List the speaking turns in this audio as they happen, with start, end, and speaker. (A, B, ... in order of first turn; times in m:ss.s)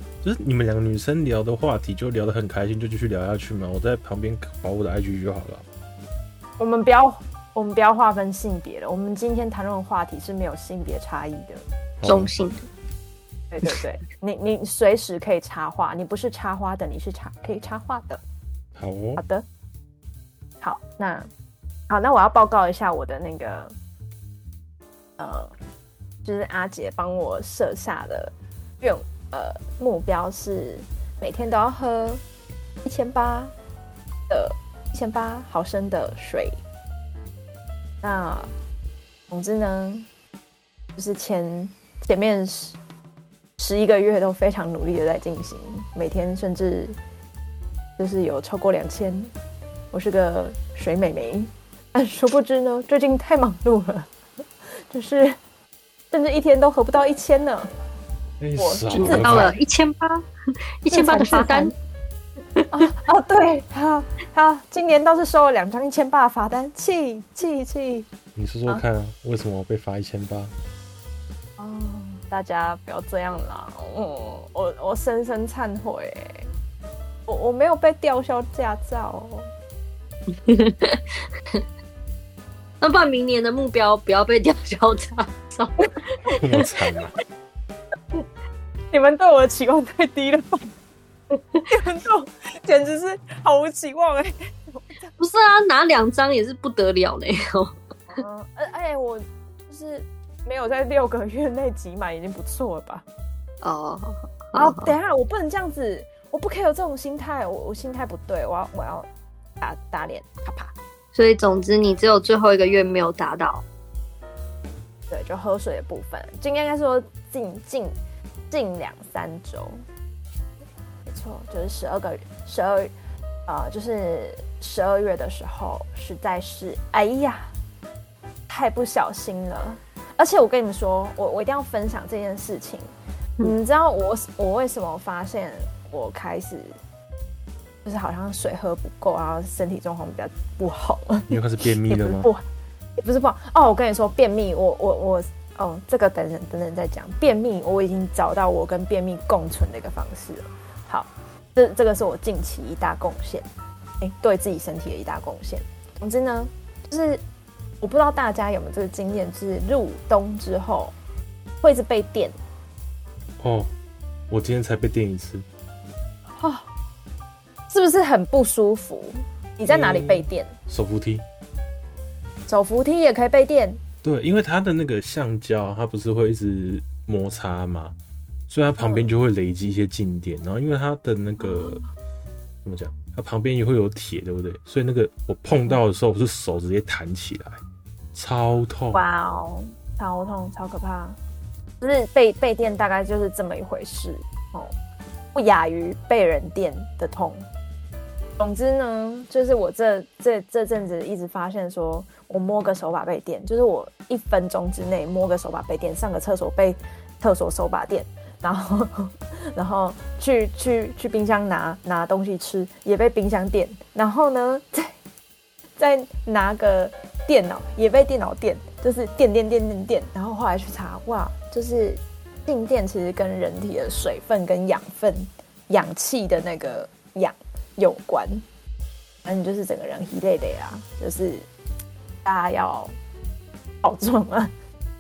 0:00.2-0:05.6 A
0:06.6-0:11.6 B
0:12.0-0:12.3 A
0:12.0-0:12.6 C
0:13.5-0:18.2 B
0:18.8-0:19.2 A
0:19.2-0:19.4 B
0:20.6-0:21.3 B
0:21.9-0:23.7 B
0:25.2-0:25.5 B
0:26.2-0:32.2 B
0:32.8-0:33.5 B
0:34.3-0:36.6 B
0:38.0-0:38.5 B
0:39.3-0:40.1 B
0:41.0-0:42.8 B
0:43.6-0:47.0 B
0:48.0-0:49.3 B
0:49.9-0:54.1 B
0:54.8-0:55.4 B
0:56.1-0:57.7 B
0:58.4-0:59.5 A
0:58.6-0:59.6 B
0:58.9-1:00.2 C
1:00.8-1:01.7 C
1:00.9-1:01.7 B
1:02.6-1:02.8 C
1:02.7-1:08.1 B
1:08.4-1:10.5 A
1:11.6-1:16.5 B
1:17.3-1:19.5 B
1:20.4-1:21.6 C
1:22.8-1:26.4 C
1:26.3-1:27.2 A
1:28.9-1:30.7 B
1:31.3-1:31.6 C
1:31.7-1:35.1 B
1:35.2-1:37.7 C
1:38.1-1:43.0 B
1:43.6-1:44.9 C
1:44.5-1:49.1 B
1:49.6-1:50.7 B
1:51.1-1:53.6 C
1:55.1-1:58.0 B
1:58.5-1:59.8 B
2:01.0-2:02.9 B
2:03.5-2:07.5 B
2:08.5-2:16.8 B
2:17.8-2:22.4 B
2:21.3-2:22.3 A
2:23.0-2:33.5 B
2:34.0-2:37.2 B
2:37.8-2:40.9 B
2:41.6-2:42.4 B
2:43.4-2:43.7 A
2:44.3-2:45.4 A
2:46.4-2:46.7 B
2:47.7-2:50.5 B
2:49.7-2:51.2 A
2:52.5-2:53.8 B
2:54.0-2:57.9 A
2:58.5-3:01.8 A
2:58.8-2:59.1 B
3:01.4-3:01.8 B
3:02.6-3:07.6 A
3:08.1-3:09.0 A
3:08.9-3:11.2 B
3:11.8-3:14.7 B
3:15.3-3:17.5 B
3:18.4-3:34.9 B
3:35.8-3:48.4 B
3:49.2-3:51.4 B
3:52.2-3:52.9 B
3:53.8-3:54.5 B